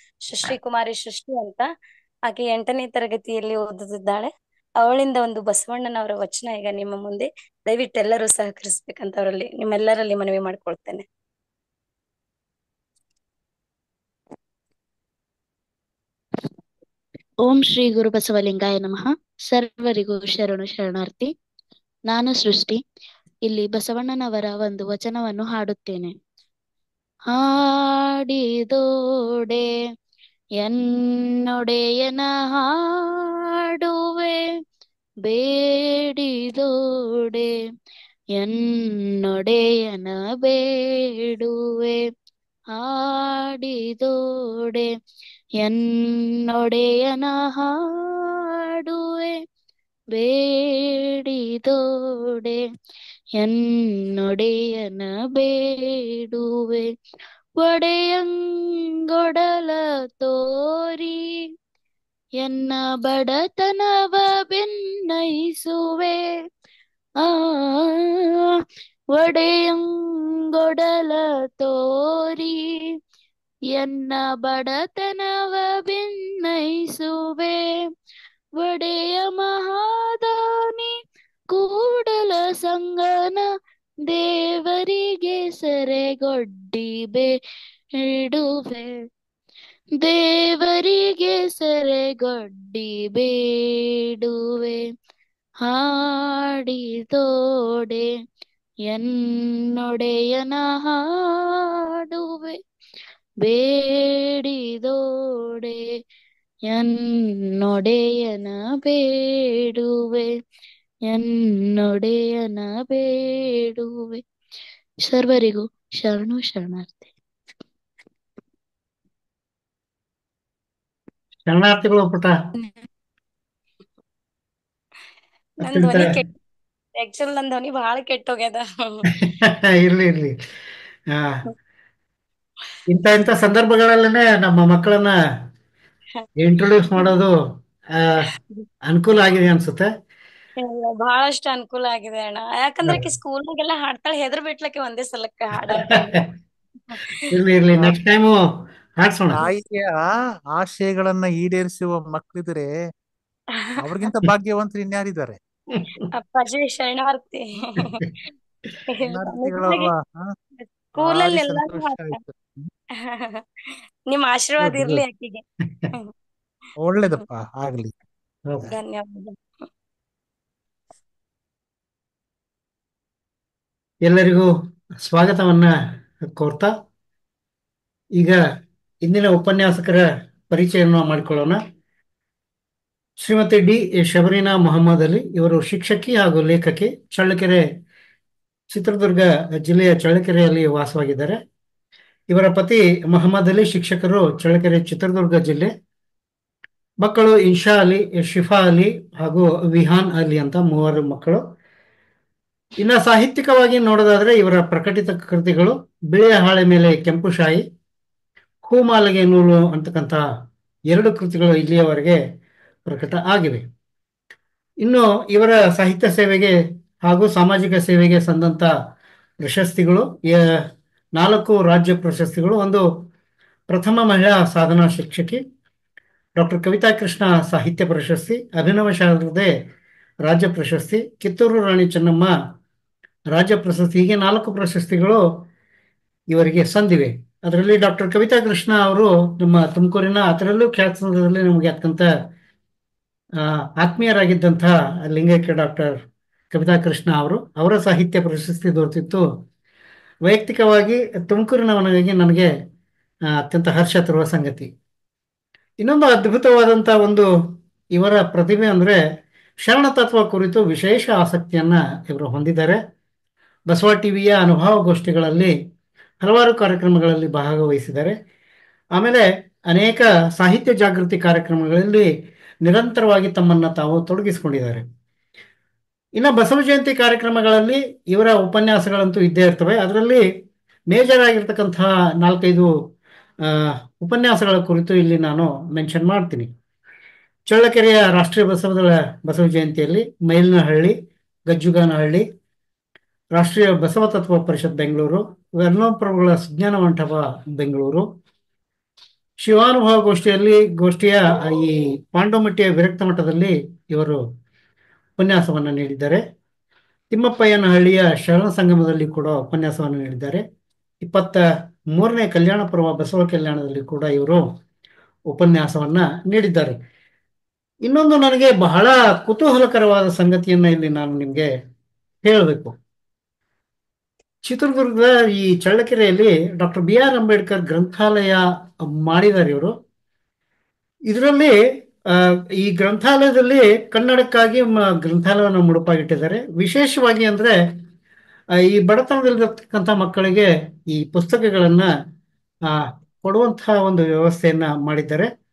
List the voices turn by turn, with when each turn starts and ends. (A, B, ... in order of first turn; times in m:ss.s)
0:00.3-0:01.7 A
0:02.3-0:04.3 A
0:04.8-0:11.0 A
0:17.4-0:21.3 B
0:22.1-0:22.8 B
0:23.5-0:26.2 B
0:27.3-0:28.8 B
0:29.4-0:29.7 B
0:31.3-0:34.4 B
0:35.3-0:37.5 B
0:38.4-0:42.0 B
0:42.8-0:44.9 B
0:45.6-0:49.4 B
0:50.1-0:52.6 B
0:54.2-0:56.9 B
0:57.6-1:01.4 B
1:02.4-1:06.2 B
1:07.2-1:08.1 B
1:09.2-1:12.6 B
1:13.7-1:17.8 B
1:18.6-1:20.9 B
1:21.5-1:23.4 B
1:24.1-1:27.3 B
1:28.0-1:29.1 B
1:30.0-1:34.8 B
1:35.7-1:38.1 B
1:39.8-1:42.6 B
1:43.4-1:45.8 B
1:47.6-1:50.3 B
1:51.1-1:54.2 B
1:55.1-1:57.1 B
2:01.5-2:02.3 C
2:05.6-2:06.3 A
2:05.6-2:06.2 C
2:07.0-2:09.1 A
2:09.2-2:10.4 C
2:11.1-2:11.4 C
2:12.9-2:15.2 C
2:16.4-2:17.4 C
2:18.0-2:18.3 C
2:18.9-2:19.9 C
2:20.6-2:26.2 A
2:25.7-2:26.2 C
2:27.0-2:27.2 A
2:27.3-2:28.4 C
2:29.0-2:29.4 C
2:29.3-2:32.7 D
2:33.6-2:34.1 A
2:33.8-2:35.4 D
2:36.1-2:38.0 A
2:38.9-2:39.9 A
2:39.0-2:40.3 D
2:40.6-2:42.2 A
2:41.0-2:42.5 D
2:43.0-2:43.4 A
2:44.1-2:46.1 A
2:46.8-2:47.9 D
2:48.7-2:49.4 A
2:54.1-2:54.5 C
2:55.0-2:55.7 C
2:56.2-2:56.7 C
2:59.0-3:01.6 C
3:03.2-3:07.6 C
3:08.7-3:11.4 C
3:12.3-3:15.7 C
3:17.0-3:21.4 C
3:22.8-3:27.7 C
3:28.7-3:30.2 C
3:30.9-3:32.2 C
3:32.9-3:33.7 C
3:34.8-3:38.7 C
3:39.4-3:40.5 C
3:41.2-3:42.9 C
3:43.7-3:45.4 C
3:46.4-3:49.5 C
3:50.2-3:52.3 C
3:53.3-3:55.2 C
3:56.3-4:02.1 C
4:03.4-4:09.3 C
4:10.3-4:12.5 C
4:13.4-4:14.7 C
4:15.8-4:17.3 C
4:17.9-4:19.0 C
4:19.6-4:22.8 C
4:23.7-4:25.6 C
4:26.2-4:28.2 C
4:29.0-4:32.1 C
4:32.6-4:34.9 C
4:36.2-4:40.2 C
4:40.9-4:42.7 C
4:43.5-4:46.5 C
4:47.5-4:52.3 C
4:53.4-4:58.1 C
4:59.4-5:04.2 C
5:05.2-5:06.2 C
5:07.1-5:10.4 C
5:11.0-5:11.4 C
5:11.9-5:14.5 C
5:15.3-5:16.8 C
5:17.8-5:21.5 C
5:22.2-5:22.8 C
5:24.4-5:29.8 C
5:31.1-5:31.6 C
5:32.1-5:37.6 C
5:38.6-5:41.9 C
5:42.7-5:45.3 C